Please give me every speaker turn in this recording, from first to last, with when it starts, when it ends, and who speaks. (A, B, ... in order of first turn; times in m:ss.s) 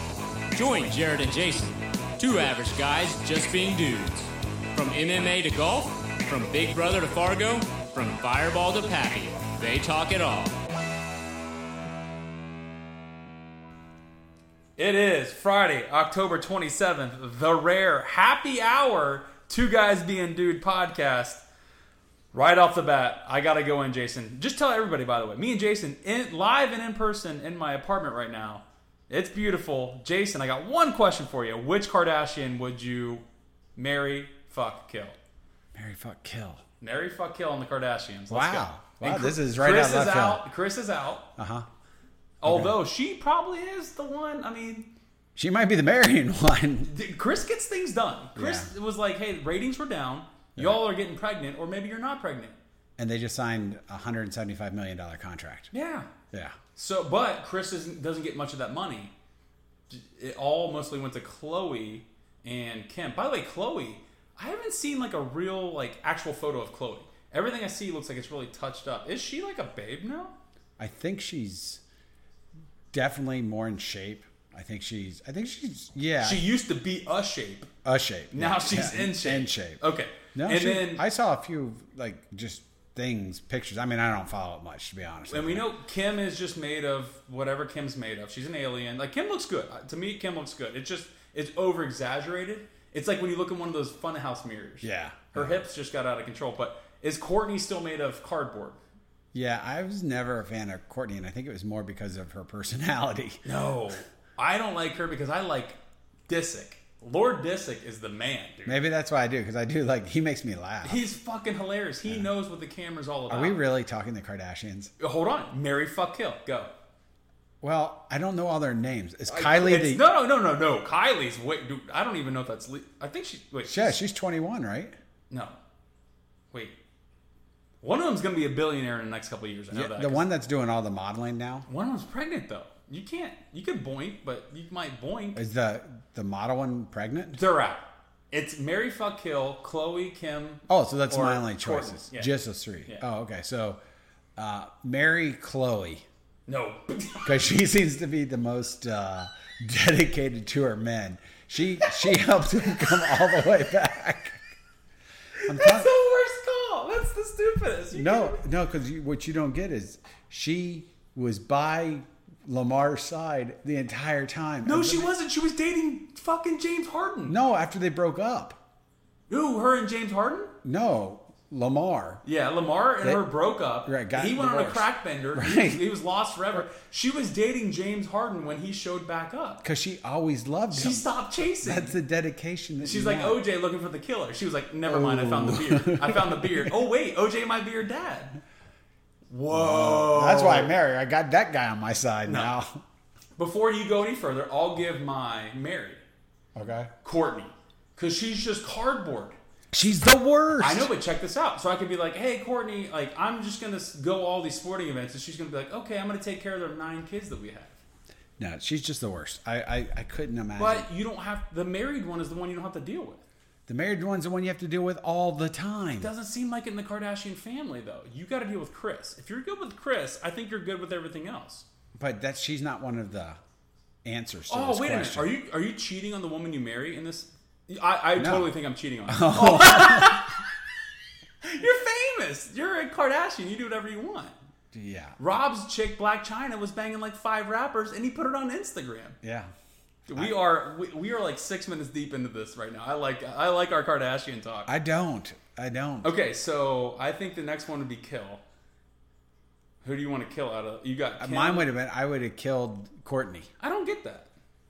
0:00.6-0:10.6 A
0:14.8-0:21.4 B
0:22.3-0:33.2 B
0:33.8-0:35.2 B
0:35.8-0:36.6 C
0:36.8-0:41.3 B
0:38.3-0:40.5 C
0:41.4-0:41.7 C
0:42.4-0:44.9 B
0:42.4-0:42.8 C
0:45.4-0:46.9 C
0:46.8-0:52.6 B
0:48.4-0:48.7 C
0:53.0-0:55.7 C
0:55.7-0:56.1 B
0:56.3-0:56.6 C
0:56.8-0:59.1 B
0:59.9-1:10.4 B
1:10.8-1:11.8 C
1:12.9-1:16.5 C
1:16.2-1:17.7 B
1:17.8-1:19.8 C
1:18.3-1:21.0 B
1:20.3-1:25.7 C
1:25.3-1:38.8 B
1:34.8-1:35.7 C
1:39.3-1:43.4 C
1:43.4-1:48.9 B
1:48.7-1:51.0 C
1:50.8-1:53.6 B
1:53.3-1:54.9 C
1:55.0-1:56.7 B
1:57.6-2:00.1 C
1:59.3-2:04.0 B
2:03.6-2:05.0 C
2:05.3-2:05.6 B
2:07.8-2:10.3 B
2:09.7-2:11.7 C
2:11.7-2:15.4 B
2:15.4-2:17.4 C
2:17.3-2:23.1 B
2:20.7-2:23.8 C
2:24.4-2:26.1 C
2:26.5-2:27.4 B
2:27.2-2:34.4 C
2:35.4-2:38.4 B
2:35.5-2:35.9 C
2:37.9-2:45.1 C
2:44.6-2:47.4 B
2:47.3-2:48.6 C
2:49.3-2:50.6 B
2:50.6-2:52.2 C
2:52.2-2:59.6 B
2:53.8-2:55.8 C
2:59.6-3:01.0 C
3:00.7-3:01.9 B
3:01.6-3:03.4 C
3:02.8-3:08.4 B
3:04.9-3:06.7 C
3:09.3-3:10.7 B
3:09.5-3:12.8 C
3:12.3-3:12.5 B
3:13.4-3:16.0 B
3:16.6-3:16.9 C
3:17.0-3:19.4 B
3:19.7-3:20.9 C
3:20.6-3:27.8 B
3:28.4-3:30.9 C
3:30.6-3:33.2 B
3:33.7-3:36.1 C
3:36.0-3:41.6 B
3:42.0-3:43.4 C
3:44.0-3:45.3 C
3:44.5-3:50.4 B
3:48.2-3:48.5 C
3:49.1-3:50.3 C
3:51.4-3:54.3 B
3:54.7-3:55.2 C
3:55.2-3:59.2 B
3:59.2-3:59.5 C
4:00.1-4:00.4 C
4:00.1-4:04.7 B
4:04.7-4:06.1 C
4:06.0-4:08.4 B
4:09.8-4:11.7 B
4:11.2-4:13.5 C
4:13.6-4:14.3 B